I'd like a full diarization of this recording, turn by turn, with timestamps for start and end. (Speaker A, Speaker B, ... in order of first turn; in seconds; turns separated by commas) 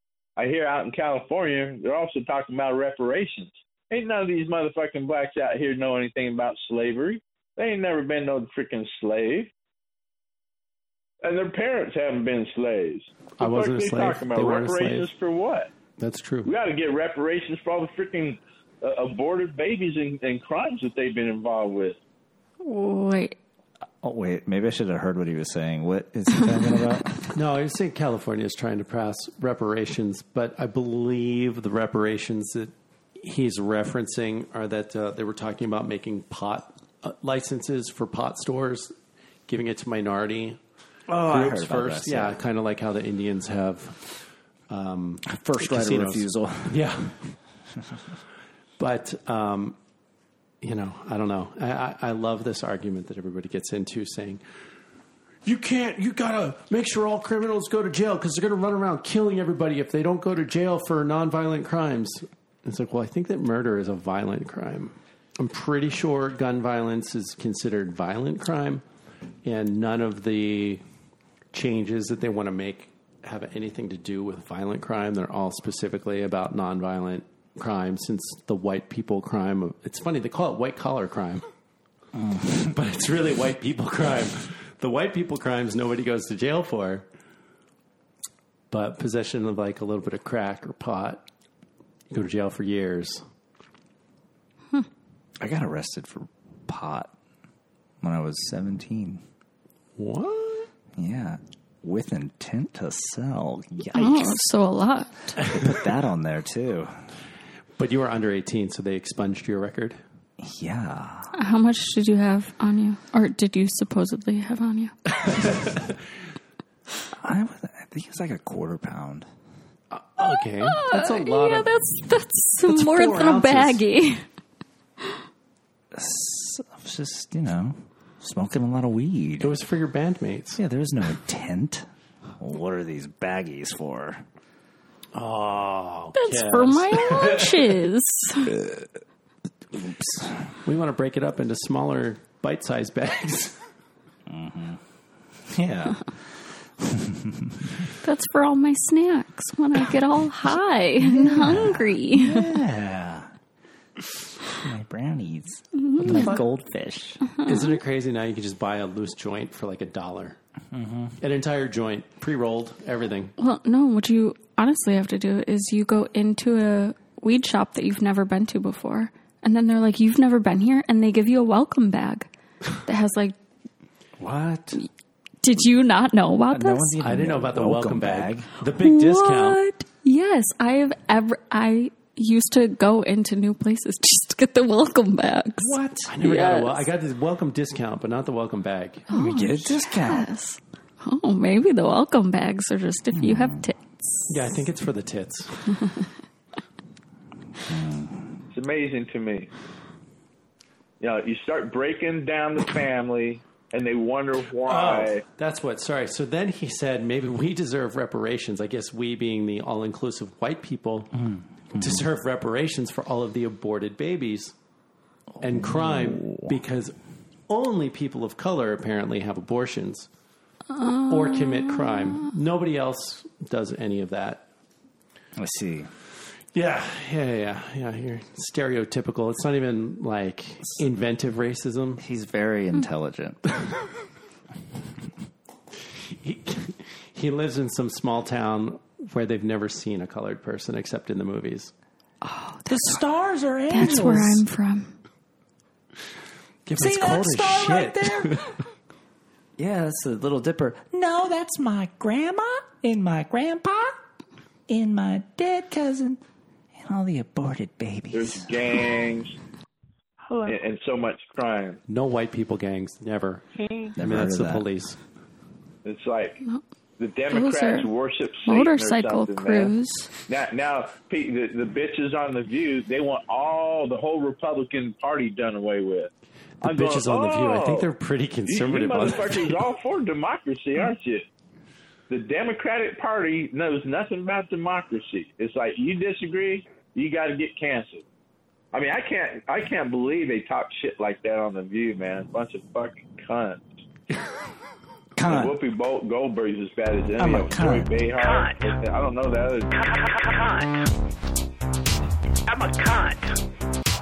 Speaker A: 0.4-9.5, Speaker A: 11.2-15.7, Speaker B: 13.4-15.1, Speaker B: 16.0-16.5, Speaker A: 16.4-22.0, Speaker C: 22.6-23.4, Speaker D: 24.0-27.2, Speaker B: 27.3-38.9, Speaker B: 39.5-44.2, Speaker D: 41.1-42.4, Speaker B: 44.7-47.4, Speaker D: 45.2-46.8, Speaker B: 48.8-49.8, Speaker B: 50.6-54.4, Speaker B: 55.4-68.8, Speaker B: 69.4-70.8, Speaker B: 71.5-81.5, Speaker D: 82.2-82.7, Speaker B: 82.7-87.1, Speaker B: 88.7-91.2, Speaker B: 92.1-93.2, Speaker D: 95.4-97.1, Speaker D: 98.0-99.2, Speaker B: 100.0-100.7, Speaker D: 101.0-104.4, Speaker C: 104.0-105.3, Speaker D: 105.4-106.9, Speaker B: 107.8-110.0, Speaker D: 110.4-111.3, Speaker C: 111.4-115.0, Speaker B: 115.3-115.8, Speaker D: 117.2-119.3, Speaker B: 119.9-121.7, Speaker C: 120.6-124.2, Speaker B: 122.7-123.8, Speaker D: 125.9-129.5, Speaker B: 129.4-130.6, Speaker D: 130.6-131.9, Speaker D: 132.4-134.2, Speaker B: 135.1-137.8, Speaker C: 136.2-138.6, Speaker D: 139.7-140.5, Speaker B: 140.7-143.6, Speaker D: 144.3-144.8, Speaker D: 145.5-146.1, Speaker D: 146.8-147.7, Speaker C: 148.0-152.5, Speaker D: 151.0-153.3, Speaker D: 154.6-157.2, Speaker C: 155.8-156.4, Speaker B: 156.0-156.4, Speaker C: 157.4-157.8, Speaker B: 157.5-160.4, Speaker D: 160.7-161.2, Speaker B: 161.2-163.3, Speaker C: 163.4-173.4, Speaker D: 174.2-174.8, Speaker C: 175.4-177.0, Speaker D: 176.5-178.5, Speaker B: 177.0-179.6, Speaker C: 178.8-186.8, Speaker D: 185.6-186.1, Speaker B: 186.1-189.1, Speaker C: 189.1-194.3, Speaker D: 189.1-190.3, Speaker D: 193.1-193.7, Speaker B: 194.3-195.6, Speaker D: 197.7-198.3, Speaker A: 198.5-199.5, Speaker A: 201.0-205.2, Speaker B: 204.6-211.1, Speaker D: 211.2-212.0, Speaker B: 211.8-214.6, Speaker D: 215.4-216.5, Speaker B: 215.4-216.9, Speaker B: 217.5-220.1, Speaker C: 220.7-222.3, Speaker B: 221.1-224.4, Speaker D: 225.4-225.9, Speaker B: 226.5-232.0, Speaker D: 232.0-233.4, Speaker B: 236.0-241.7, Speaker C: 242.2-242.9, Speaker D: 242.7-244.4, Speaker C: 243.7-244.9, Speaker B: 246.7-248.6, Speaker D: 246.8-248.3, Speaker D: 249.6-254.0, Speaker D: 254.7-256.2, Speaker D: 256.8-258.5, Speaker A: 258.1-259.3, Speaker A: 260.4-261.8, Speaker B: 261.9-263.4, Speaker D: 264.0-264.6, Speaker B: 264.0-265.0, Speaker A: 265.9-266.4, Speaker A: 267.0-269.7, Speaker C: 267.3-267.9, Speaker C: 268.5-270.1, Speaker A: 270.3-276.1, Speaker B: 276.6-279.6, Speaker A: 276.6-277.9, Speaker A: 278.5-281.2, Speaker A: 282.1-288.0, Speaker A: 288.7-293.6, Speaker D: 295.2-295.5, Speaker A: 295.3-300.2, Speaker D: 297.2-297.9